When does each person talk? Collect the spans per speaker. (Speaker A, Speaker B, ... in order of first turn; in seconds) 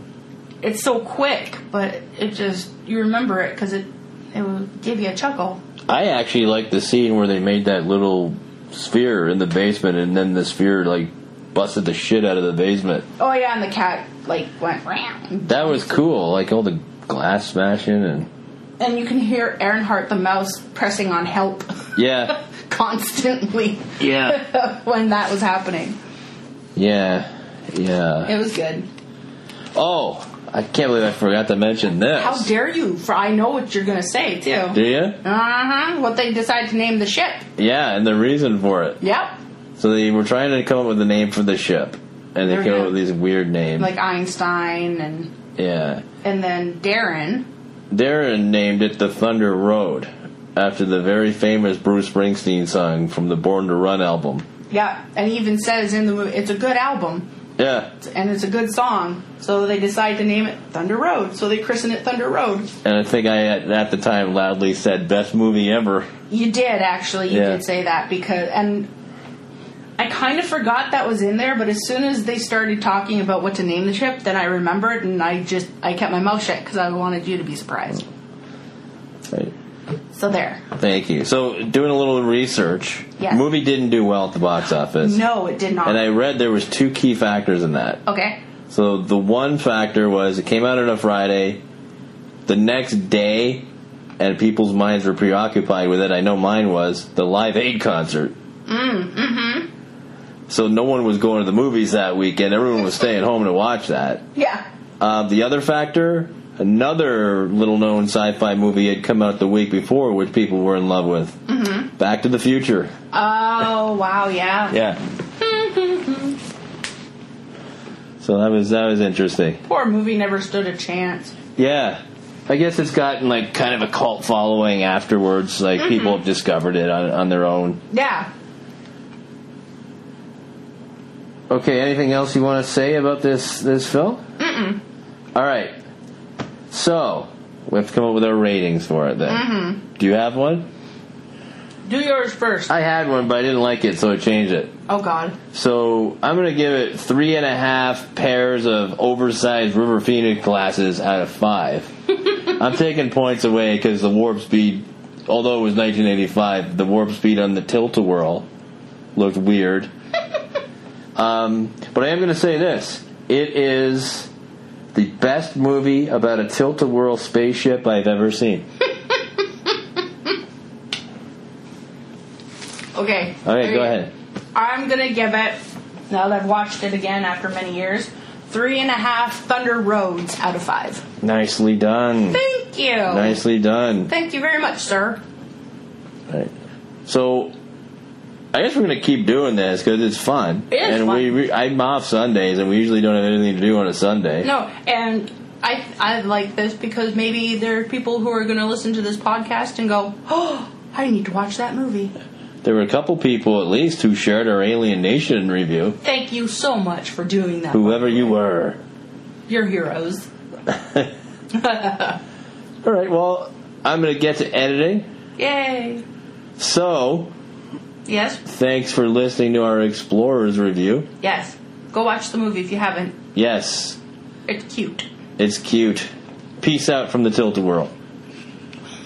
Speaker A: 0.6-5.6, 13.2-15.9, 18.8-26.0, 28.3-28.9, 32.1-37.5, 39.0-39.4, 42.5-43.0, 43.8-45.3, 46.2-47.5, 54.7-57.3, 58.0-62.7, 66.3-68.9, 70.0-78.1, 80.1-80.6, 85.0-86.0, 88.1-88.4, 98.7-99.7, 104.3-104.7, 111.5-111.9, 113.1-114.8, 115.4-116.4, 119.6-121.3, 125.8-126.2, 127.9-128.3, 134.4-134.8, 139.3-139.8, 141.9-142.8, 144.9-145.4, 169.0-169.7, 172.9-174.0, 174.5-181.1, 182.3-183.4, 184.1-185.2, 190.7-191.3, 194.4-202.1, 206.0-208.4, 209.5-210.3, 211.5-212.2, 215.4-216.0, 218.1-218.4, 221.2-223.2, 224.5-225.1
Speaker B: 5.9-13.1, 15.5-18.3, 22.0-22.4, 24.0-24.4, 26.8-28.3, 29.8-32.5, 34.7-35.2, 37.6-39.0, 39.8-43.9, 45.6-46.0, 47.9-54.5, 57.6-57.9, 62.8-66.1, 67.3-67.6, 80.8-85.2, 85.8-88.0, 88.7-91.6, 92.5-93.7, 94.2-98.3, 100.5-104.2, 105.0-111.4, 112.0-112.9, 114.7-115.0, 118.2-119.6, 121.6-127.8, 131.5-134.2, 135.3-135.8, 136.7-140.7, 142.7-144.7, 145.5-158.5, 159.2-159.9, 161.2-164.3, 164.9-168.7, 173.4-174.1, 181.2-182.4, 183.1-184.1, 187.1-187.5, 188.5-194.5, 202.6-206.0, 207.7-208.8, 212.8-215.1, 216.6-217.3, 218.5-221.1, 223.3-224.0, 225.4-226.1, 226.6-227.9